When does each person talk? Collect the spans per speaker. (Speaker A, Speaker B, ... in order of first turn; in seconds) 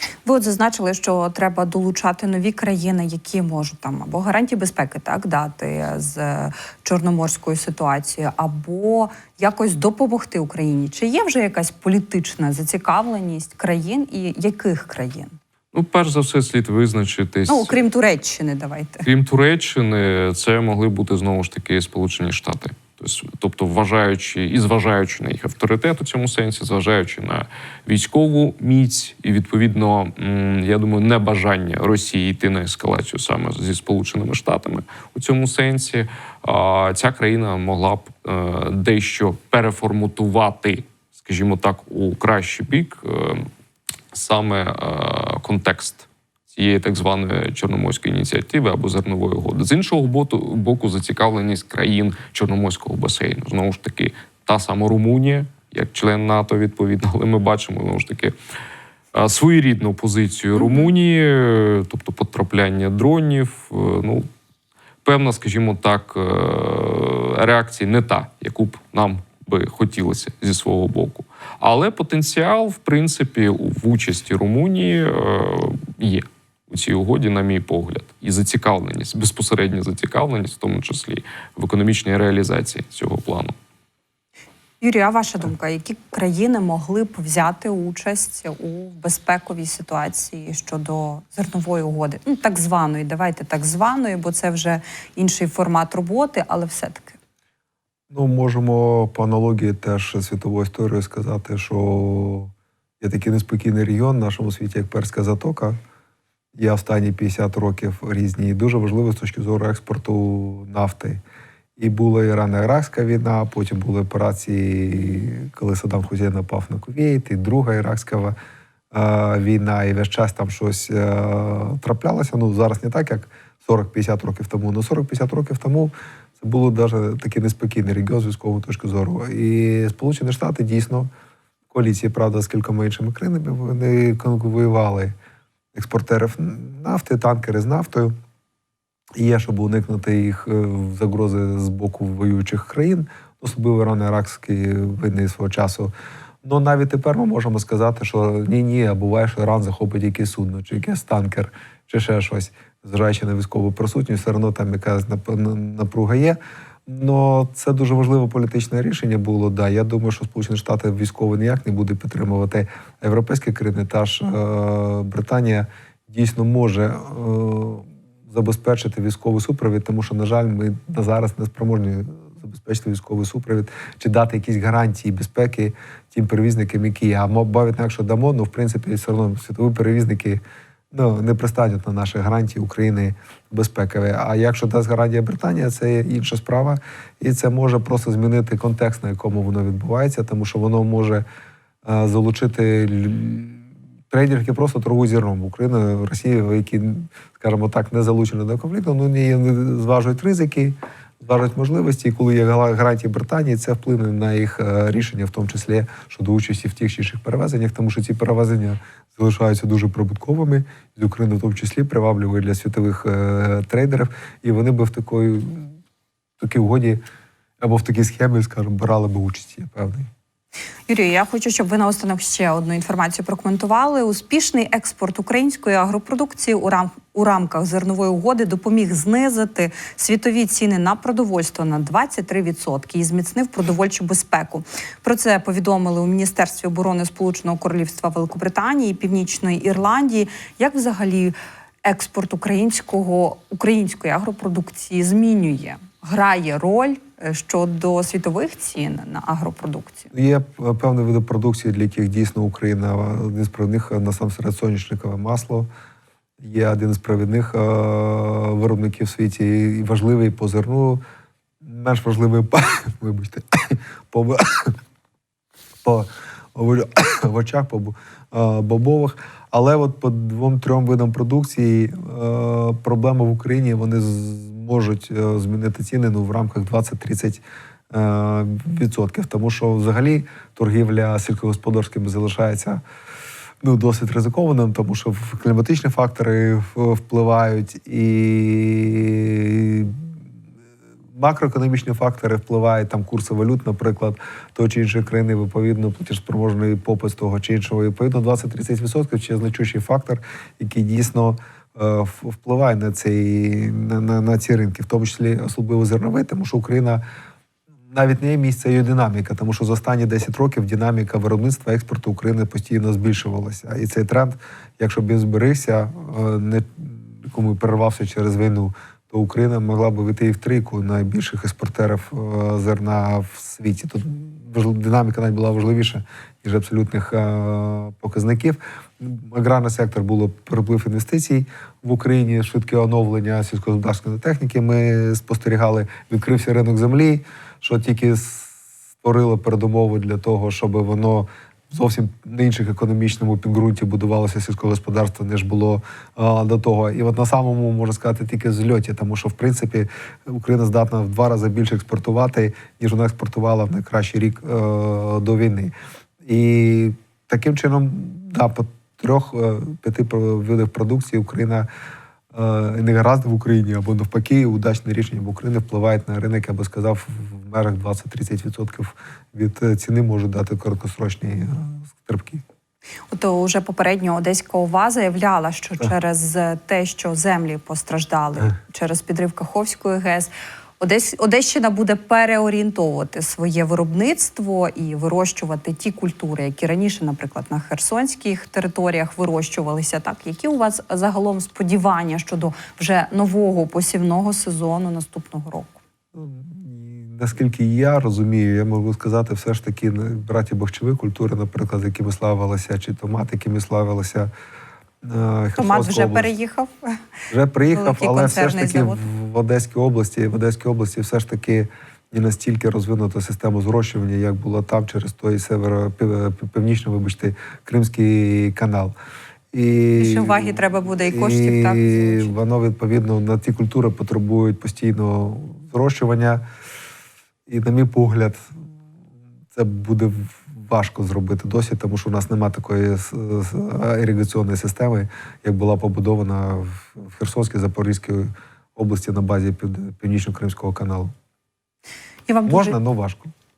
Speaker A: 0.2-15.4, 17.5-19.1, 84.8-97.2, 220.9-250.1, 373.1-395.8, 405.6-407.0, 407.7-409.0, 420.0-422.3, 442.3-442.8
Speaker B: 15.7-17.7, 19.1-43.5, 44.1-58.4, 59.1-64.3, 65.0-83.6
Speaker C: 98.1-105.8, 106.6-111.2, 111.8-118.3, 118.9-131.1, 131.7-135.2, 135.7-138.1, 139.2-145.9, 146.4-180.4, 180.9-191.2, 191.8-215.8, 216.4-217.0, 217.6-220.1, 250.1-255.7, 256.4-261.0, 261.6-264.8, 265.8-282.8, 283.6-290.1, 291.1-307.0, 307.9-355.7, 356.2-361.7, 362.3-372.4, 396.1-404.3, 405.0-406.3, 407.3-418.9, 419.5-426.4, 427.5-428.4, 429.5-441.1, 442.5-443.3